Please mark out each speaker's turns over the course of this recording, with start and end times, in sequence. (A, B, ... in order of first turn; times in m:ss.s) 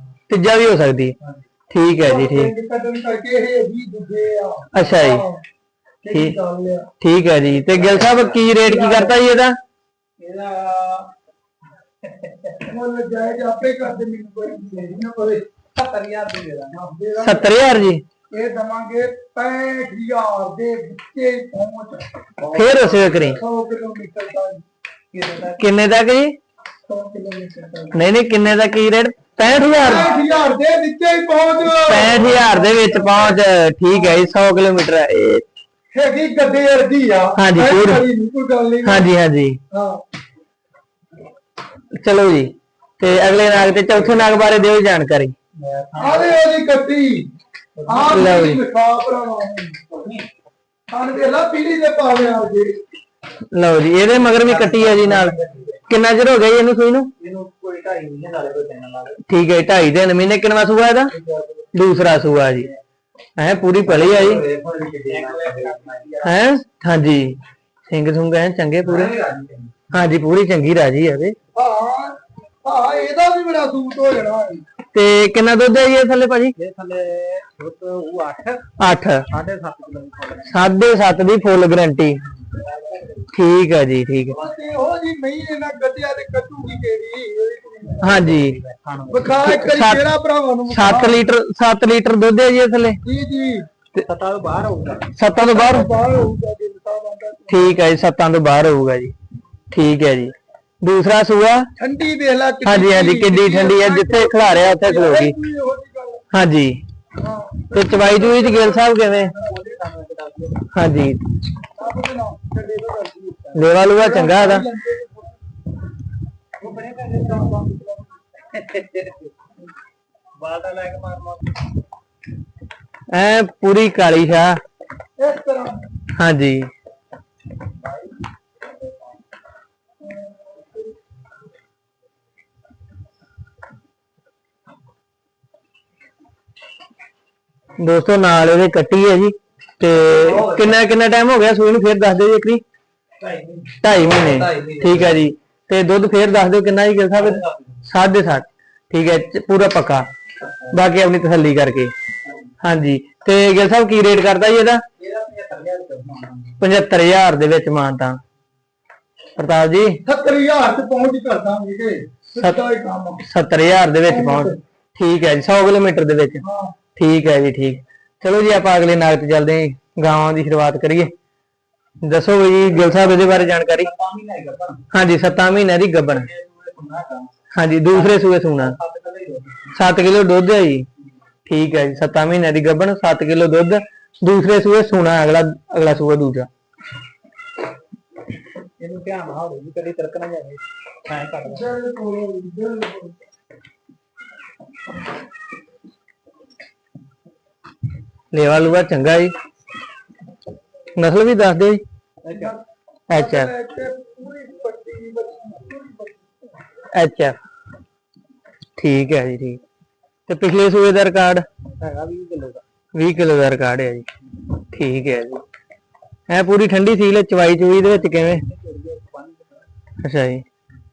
0:00.3-0:01.1 A
0:01.7-0:02.5 A
0:02.0-0:05.4 B
0:04.7-0:05.2 A
0:06.0-0:06.9 B
0:07.0-0:09.6 A
0:07.7-0:08.4 C
0:08.6-0:09.1 B
0:10.2-0:11.1 C
0:12.0-0:12.6 C
0:12.7-0:15.5 B
0:15.8-0:16.8 C
0:16.7-0:17.5 B
0:17.2-0:18.0 A
0:18.3-0:22.1 B
0:22.4-0:23.4 C
0:22.5-0:23.4 A
0:23.4-0:24.6 B
0:25.1-0:25.6 C
0:25.6-0:26.3 A
0:26.9-0:28.0 B
0:27.9-0:30.1 A
0:29.8-0:30.3 C
0:29.8-0:33.4 B
0:31.7-0:35.4 A
0:33.9-0:34.3 B
0:35.9-0:39.1 B
0:37.4-0:38.0 A
0:38.8-0:39.6 A
0:39.7-0:40.0 B
0:42.0-0:45.3 A
0:43.2-0:44.2 C
0:45.6-0:46.4 C
0:46.0-0:47.3 B
0:47.8-0:48.2 C
0:47.8-0:49.9 B
0:48.0-0:48.6 A
0:50.9-0:52.7 B
0:53.5-0:55.4 A
0:54.2-0:55.8 C
0:55.9-0:57.1 A
0:57.2-0:59.2 C
0:59.2-1:01.1 A
1:01.2-1:01.6 C
1:01.7-1:02.7 A
1:03.4-1:04.4 A
1:03.8-1:06.4 C
1:06.2-1:07.4 A
1:07.9-1:09.1 A
1:08.8-1:09.7 C
1:09.9-1:11.3 A
1:11.5-1:14.6 B
1:14.9-1:16.5 A
1:16.6-1:18.6 C
1:18.8-1:19.2 A
1:19.3-1:20.6 C
1:20.5-1:22.2 A
1:22.4-1:23.2 C
1:23.3-1:24.4 A
1:24.3-1:28.2 B
1:28.0-1:28.6 A
1:28.0-1:29.7 C
1:29.1-1:31.2 B
1:29.4-1:30.0 A
1:30.7-1:33.0 A
1:33.0-1:33.7 B
1:34.0-1:35.1 C
1:35.2-1:35.9 A
1:35.3-1:37.8 B
1:37.5-1:39.1 A
1:39.7-1:41.6 A
1:41.8-1:46.2 B
1:42.6-1:45.3 A
1:46.3-1:46.8 A
1:47.2-1:49.4 B
1:47.7-1:49.3 A
1:49.1-1:50.7 C
1:50.7-1:51.2 A
1:51.8-1:55.3 B
1:53.5-1:54.6 A
1:56.6-1:59.3 C
2:00.4-2:01.7 C
2:03.1-2:04.6 A
2:05.2-2:05.8 B
2:06.2-2:06.7 A
2:07.8-2:09.2 C
2:10.1-2:10.6 B
2:17.8-2:22.6 A
2:19.9-2:20.8 C
2:23.2-2:25.2 C
2:23.8-2:30.1 A
2:27.1-2:27.8 C
2:30.7-2:31.9 A
2:32.6-2:34.8 A
2:35.0-2:36.6 C
2:36.6-2:38.2 A
2:39.4-2:40.0 A
2:40.0-2:43.2 B
2:43.2-2:46.4 A
2:44.1-2:44.6 B
2:46.4-2:46.7 B
2:47.0-2:51.1 A
2:52.0-2:53.9 A
2:52.7-2:54.9 C
2:54.9-2:56.3 A
2:56.1-2:57.3 C
2:57.5-2:58.8 A
2:57.9-2:59.7 C
2:59.7-3:00.8 A
3:01.5-3:06.5 A
3:08.8-3:11.7 C
3:11.4-3:13.1 B
3:18.3-3:19.3 A
3:21.0-3:21.8 A
3:22.2-3:22.6 C
3:22.3-3:22.6 B
3:23.1-3:23.5 A
3:23.1-3:26.2 B
3:26.9-3:27.4 A
3:28.8-3:29.6 A
3:30.3-3:31.4 A
3:31.8-3:32.6 C
3:32.9-3:34.1 A
3:34.7-3:35.4 A
3:36.3-3:38.4 A
3:38.2-3:39.6 C
3:40.0-3:40.4 A